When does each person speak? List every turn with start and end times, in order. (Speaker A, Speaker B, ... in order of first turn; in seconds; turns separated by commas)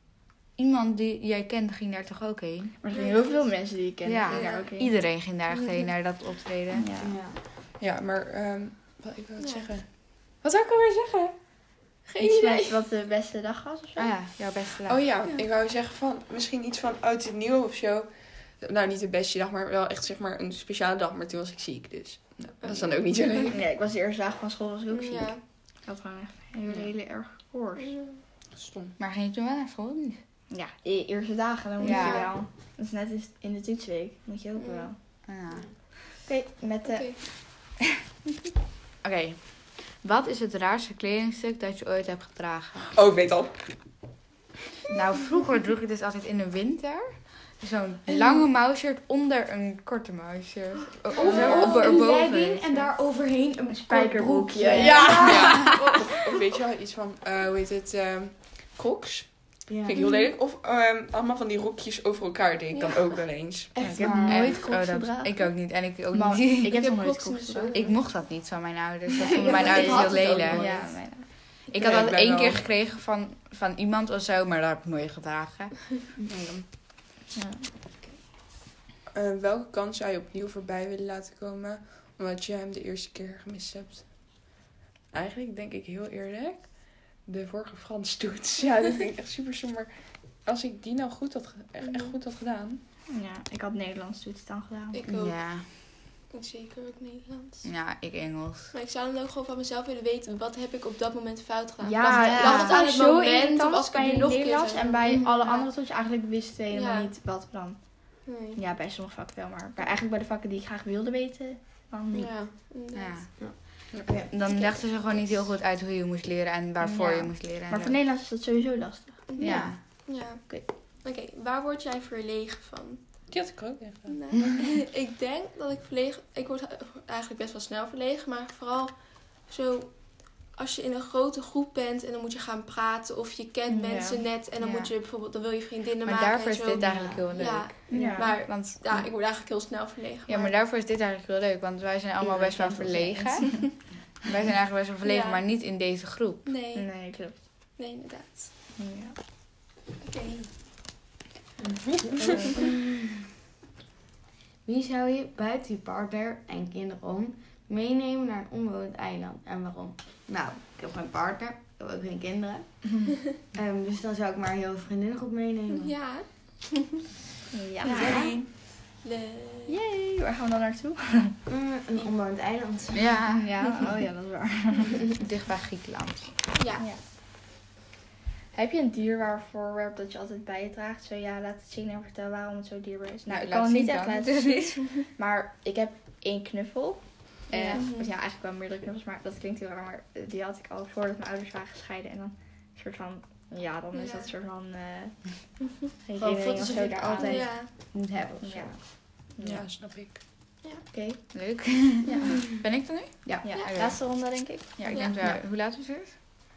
Speaker A: 0.6-2.8, Speaker B: 2.8-4.9, Speaker C: 2.9-3.7, Speaker A: 4.0-6.9, Speaker C: 4.3-4.7, Speaker C: 5.5-5.9, Speaker B: 6.7-7.1, Speaker D: 7.0-7.4, Speaker E: 7.8-11.3, Speaker C: 9.4-9.7, Speaker C: 12.1-12.8, Speaker B: 12.2-14.1, Speaker A: 14.0-15.0, Speaker E: 14.8-23.6, Speaker C: 22.6-23.5, Speaker B: 23.5-27.9, Speaker C: 24.9-25.4, Speaker C: 27.8-28.2, Speaker E: 28.5-28.9, Speaker A: 29.0-30.2, Speaker B: 30.5-35.0, Speaker C: 31.8-32.3, Speaker A: 31.8-32.3, Speaker C: 34.6-34.9, Speaker A: 35.3-35.7, Speaker B: 36.2-37.1, Speaker C: 36.8-37.2, Speaker A: 39.0-43.0, Speaker E: 42.9-43.9, Speaker A: 44.9-52.9, Speaker D: 51.1-56.0, Speaker B: 51.3-51.8, Speaker B: 53.7-55.9, Speaker A: 54.7-55.8, Speaker E: 54.8-63.7, Speaker D: 59.6-60.1, Speaker C: 60.0-60.3, Speaker C: 62.7-63.2, Speaker B: 63.7-67.8, Speaker A: 63.8-66.8, Speaker C: 66.7-68.0, Speaker A: 67.7-76.0, Speaker B: 69.3-71.7, Speaker D: 69.3-71.0, Speaker E: 71.8-72.7, Speaker E: 76.3-76.6, Speaker B: 77.3-77.7, Speaker E: 79.1-84.1, Speaker E: 85.1-92.8, Speaker C: 91.8-92.2, Speaker B: 93.1-95.0, Speaker C: 94.9-95.5, Speaker A: 95.1-95.7, Speaker C: 96.3-97.7, Speaker A: 97.6-98.7, Speaker C: 98.7-105.7, Speaker B: 101.8-112.3, Speaker A: 102.1-102.8, Speaker C: 106.7-107.1, Speaker C: 108.2-108.6, Speaker C: 112.1-113.2, Speaker A: 112.9-118.0, Speaker D: 113.4-114.7, Speaker E: 113.9-114.2, Speaker B: 116.8-120.7, Speaker C: 119.3-123.4, Speaker A: 119.4-119.8, Speaker E: 123.3-124.2, Speaker C: 124.1-140.5, Speaker B: 133.7-134.2, Speaker A: 134.6-134.9, Speaker A: 136.0-138.8, Speaker D: 136.8-137.3, Speaker B: 137.9-138.3, Speaker A: 140.3-146.5, Speaker D: 142.2-143.3, Speaker C: 145.0-145.4, Speaker C: 146.4-146.9, Speaker B: 146.7-147.4, Speaker C: 147.8-148.5, Speaker B: 148.8-149.2, Speaker C: 150.0-150.5, Speaker D: 151.6-152.8, Speaker D: 154.6-165.9, Speaker C: 165.7-166.8, Speaker B: 167.5-168.3, Speaker C: 167.9-168.3, Speaker E: 167.9-168.5, Speaker C: 169.0-169.8, Speaker B: 169.7-171.4, Speaker D: 171.4-173.3, Speaker A: 172.9-173.9, Speaker B: 173.6-175.1, Speaker A: 175.2-176.4, Speaker C: 176.5-176.8, Speaker B: 178.5-195.3, Speaker A: 183.3-184.9, Speaker A: 187.5-187.8, Speaker C: 187.7-188.1, Speaker C: 193.9-194.3, Speaker B: 196.0-199.7, Speaker D: 196.2-198.8, Speaker C: 197.1-197.7, Speaker E: 199.4-200.2, Speaker B: 200.9-202.4, Speaker A: 201.3-206.2, Speaker B: 203.2-205.1, Speaker C: 204.9-205.2